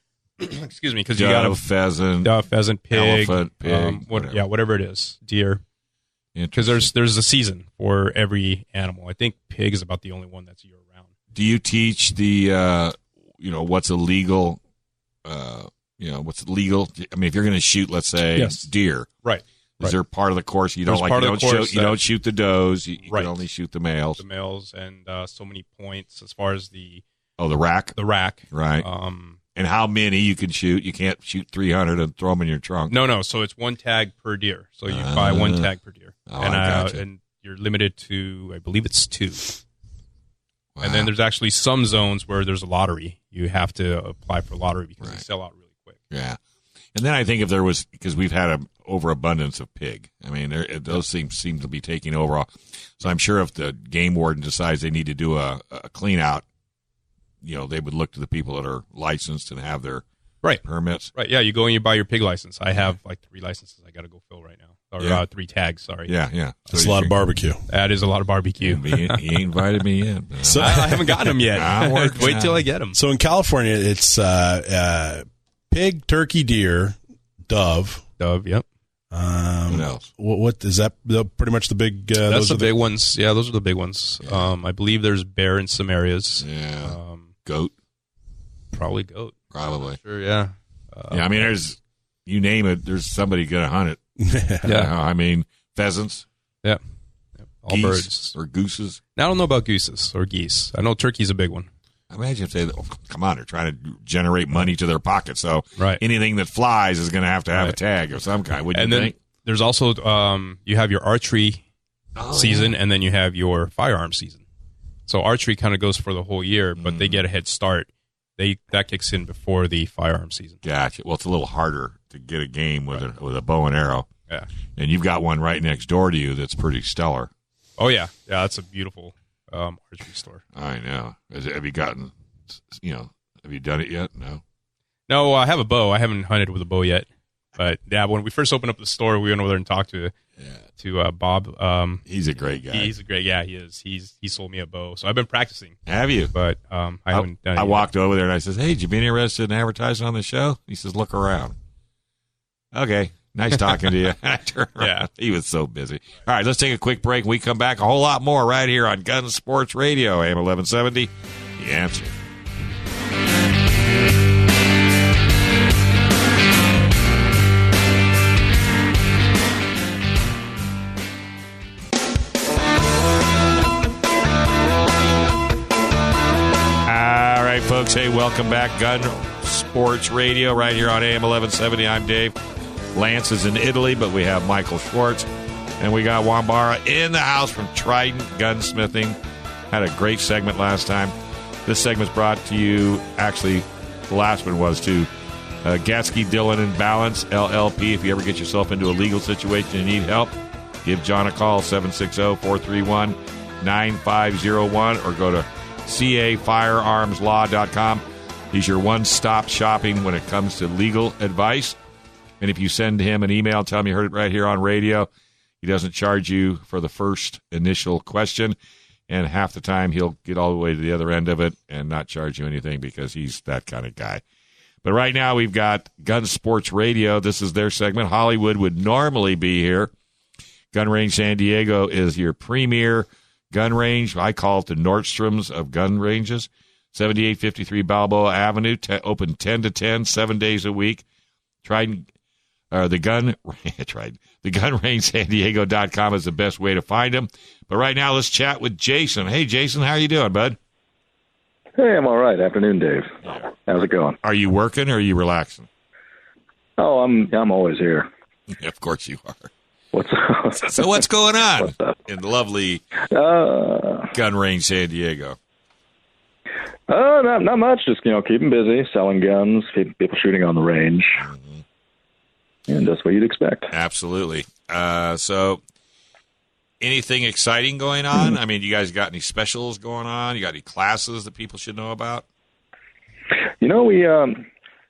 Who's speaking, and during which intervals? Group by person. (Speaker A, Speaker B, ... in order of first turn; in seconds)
Speaker A: 0.4-1.6, 2.2-5.6, 6.5-11.1, 18.4-18.6, 19.2-19.9, 20.9-22.0, 23.0-23.3, 24.2-27.0, 27.9-29.4, 32.9-39.6, 40.8-46.0, 61.1-66.1, 67.7-69.3, 70.5-73.0, 78.2-78.6, 82.2-87.3, 88.7-91.5, 94.6-94.9, 97.6-98.3, 99.2-101.7, 108.7-111.6, 112.3-114.4, 115.1-120.6, 127.8-130.4, 135.1-137.1, 137.6-140.1, 140.8-142.0, 142.7-145.8, 146.3-147.9, 154.8-155.1
Speaker B: 1.1-2.3, 2.9-4.4, 6.3-6.9, 11.3-14.6, 15.2-19.1, 19.8-24.2, 27.4-27.9, 28.5-28.8, 29.6-32.9, 34.9-35.7, 36.3-37.0, 40.8-41.1, 46.1-46.4, 46.9-56.4, 57.4-60.0, 60.6-61.1, 66.1-67.1, 68.6-72.5, 79.7-80.1, 84.2-84.5, 86.4-87.7, 89.5-90.0, 91.1-94.0, 94.6-96.2, 97.7-99.0, 102.1-109.1, 112.2-112.7, 116.8-117.2, 120.6-124.1, 124.8-127.3, 130.5-134.4, 142.1-142.9, 145.9-146.3, 147.1-151.5, 152.7-162.2, 176.8-182.3, 182.9-185.3, 185.8-189.2, 189.7-191.1, 191.7-195.1, 195.6-200.3, 200.8-211.8, 212.4-215.1, 215.6-218.6, 219.1-224.2, 224.8-229.9, 230.7-241.0, 241.6-242.1, 242.7-250.6, 254.2-255.7, 258.5-259.5, 260.6-262.8, 264.1-265.4, 271.2-271.6, 273.7-275.6, 276.8-282.2
Speaker C: 66.7-67.6, 70.4-71.4, 72.2-78.0, 79.1-82.7, 94.2-94.7
Speaker D: 251.8-254.2, 256.8-258.1, 259.9-261.0, 261.6-262.0, 263.1-264.1, 266.9-271.2, 272.7-273.7, 283.6-284.4